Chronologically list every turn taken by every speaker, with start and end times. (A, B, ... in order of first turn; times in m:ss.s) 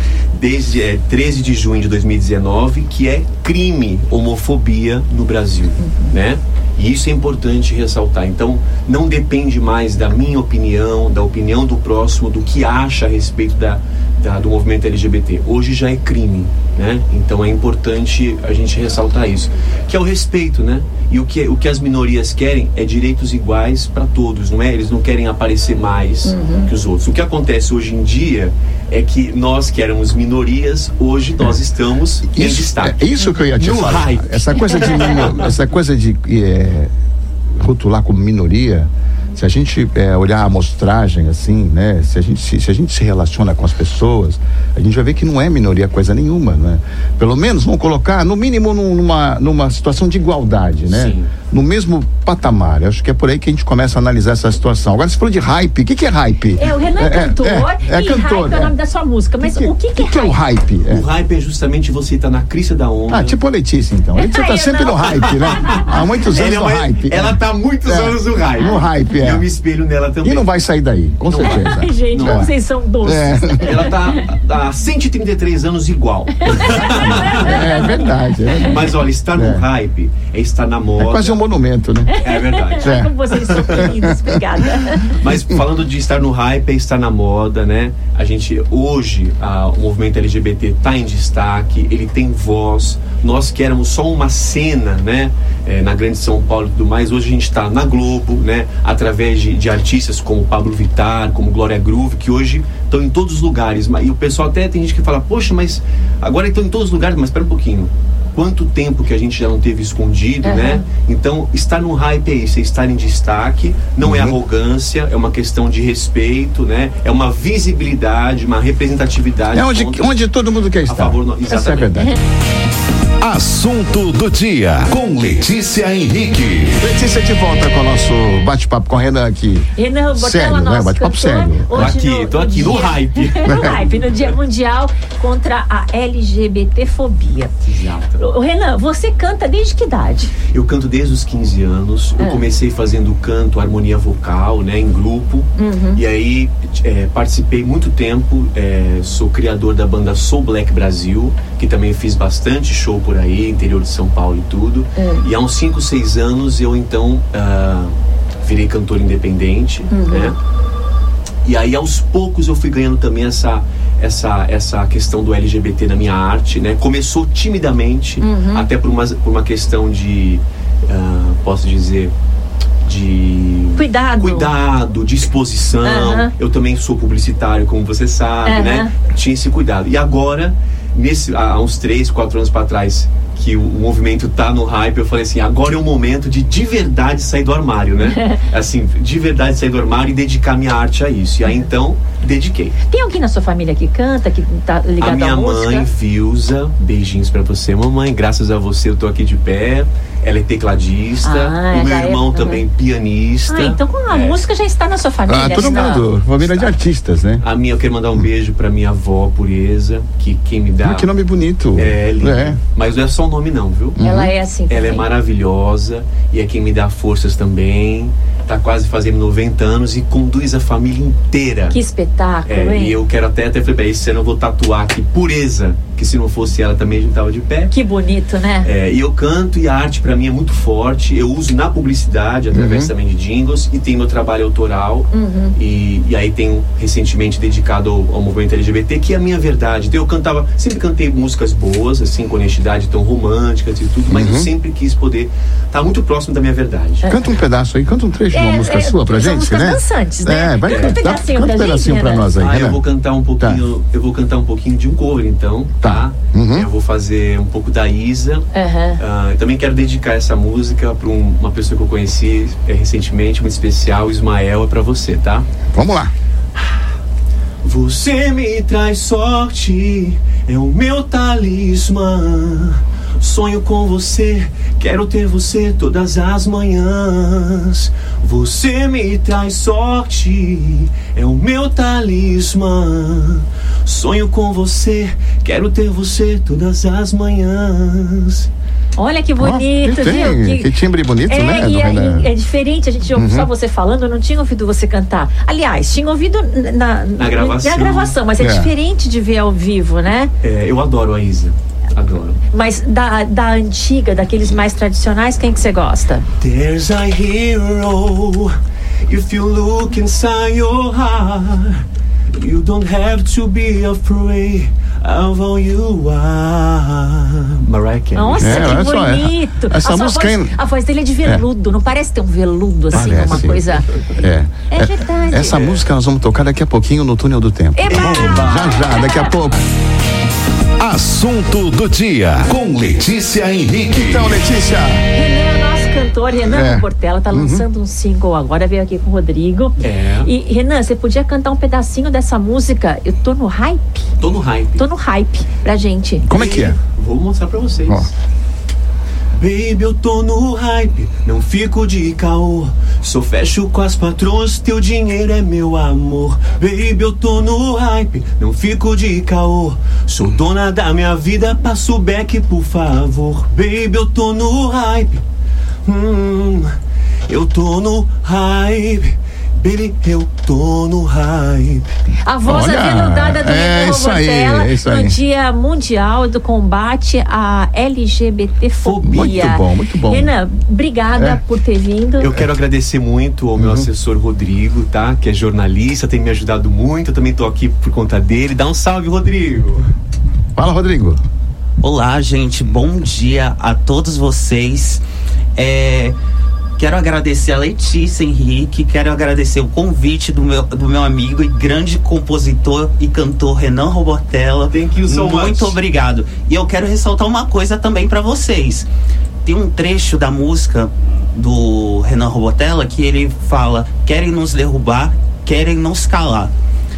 0:00.4-0:33.0 A
0:05.8-0:06.1 B
0:26.2-0:26.7 B
0:32.3-0:36.9 C
0:33.6-0:35.5 A
0:37.6-0:58.7 C
0:50.9-0:51.3 A
0:56.6-1:00.4 B
0:59.4-1:01.0 C
1:00.9-1:03.4 A
1:03.1-1:09.5 C
1:04.2-1:05.9 B
1:05.4-1:05.7 A
1:06.3-1:10.5 A
1:08.6-1:08.9 B
1:10.2-1:13.9 C
1:11.3-1:12.5 A
1:11.4-1:14.2 B
1:13.6-1:18.0 A
1:16.4-1:18.7 B
1:16.5-1:19.6 C
1:18.6-1:21.4 A
1:21.0-1:22.1 C
1:22.1-1:25.2 B
1:22.2-1:23.9 A
1:22.8-1:24.4 C
1:25.0-2:00.1 A
1:50.4-1:50.8 B
1:54.0-1:54.4 C
1:59.5-2:02.2 C
2:00.8-2:01.9 A
2:03.2-2:06.8 D
2:06.8-2:12.0 C
2:09.7-2:17.5 B
2:11.7-2:13.9 A
2:17.6-2:18.2 A
2:18.2-2:20.3 B
2:20.5-2:40.4 A
2:22.2-2:22.4 B
2:25.6-2:26.0 B
2:35.0-2:35.3 B
2:39.9-2:40.3 B
2:41.4-2:52.1 A
2:48.2-2:48.7 B
2:52.8-3:12.7 A
2:53.8-2:54.5 B
2:55.8-2:56.3 B
2:58.4-2:58.9 B
3:08.1-3:08.4 B
3:12.9-3:15.9 B
3:15.0-3:24.4 A
3:21.2-3:22.6 B
3:23.5-3:26.1 B
3:25.3-3:27.4 C
3:25.4-3:26.8 A
3:27.4-3:31.1 A
3:30.8-3:32.6 C
3:31.7-3:34.0 A
3:34.0-3:34.3 C
3:34.0-3:35.0 B
3:34.7-3:41.8 A
3:41.7-3:43.0 B
3:42.4-3:47.7 A
3:47.7-3:48.7 B
3:48.6-4:07.1 A
3:52.5-3:52.9 C
3:55.1-3:55.6 B
4:04.1-4:04.5 C
4:07.0-4:12.8 C
4:08.3-4:12.3 B
4:10.6-4:11.0 A
4:12.4-4:18.4 A
4:15.8-4:16.7 C
4:18.5-4:19.0 B
4:19.0-4:25.5 A
4:25.7-4:26.1 C
4:27.6-4:48.5 A
4:49.0-4:50.7 B
4:49.4-4:52.3 C
4:51.2-5:00.3 B
4:53.1-4:53.5 C
4:57.2-4:58.2 A
4:58.4-4:58.7 C
5:00.4-5:02.4 A
5:02.5-5:06.3 B
5:06.4-5:08.5 A
5:09.0-5:18.8 A
5:18.1-5:23.9 B
5:18.4-5:20.5 C
5:22.9-5:23.4 A
5:22.9-5:23.6 C
5:24.2-5:29.6 C
5:24.7-5:25.6 B
5:25.5-5:25.8 A
5:27.7-5:29.3 B
5:27.9-5:28.9 A
5:30.8-5:34.3 D
5:33.9-5:35.0 C
5:35.1-5:44.1 B
5:36.4-5:37.6 C
5:39.8-5:40.3 A
5:44.2-5:44.8 A
5:44.8-5:46.2 B
5:46.2-5:46.8 C
5:46.3-5:48.1 A
5:49.4-6:05.2 A
6:05.8-6:06.7 A
6:07.3-6:11.9 A
6:12.2-6:22.3 B
6:12.4-6:15.2 C
6:18.8-6:19.4 A
6:19.0-6:20.3 C
6:21.1-6:21.4 C
6:22.2-6:29.9 A
6:23.6-6:23.9 C
6:30.6-6:31.2 C
6:31.8-6:35.0 E
6:35.6-6:36.2 E
6:36.8-6:48.9 E
6:44.7-6:45.8 A
6:49.4-6:56.5 E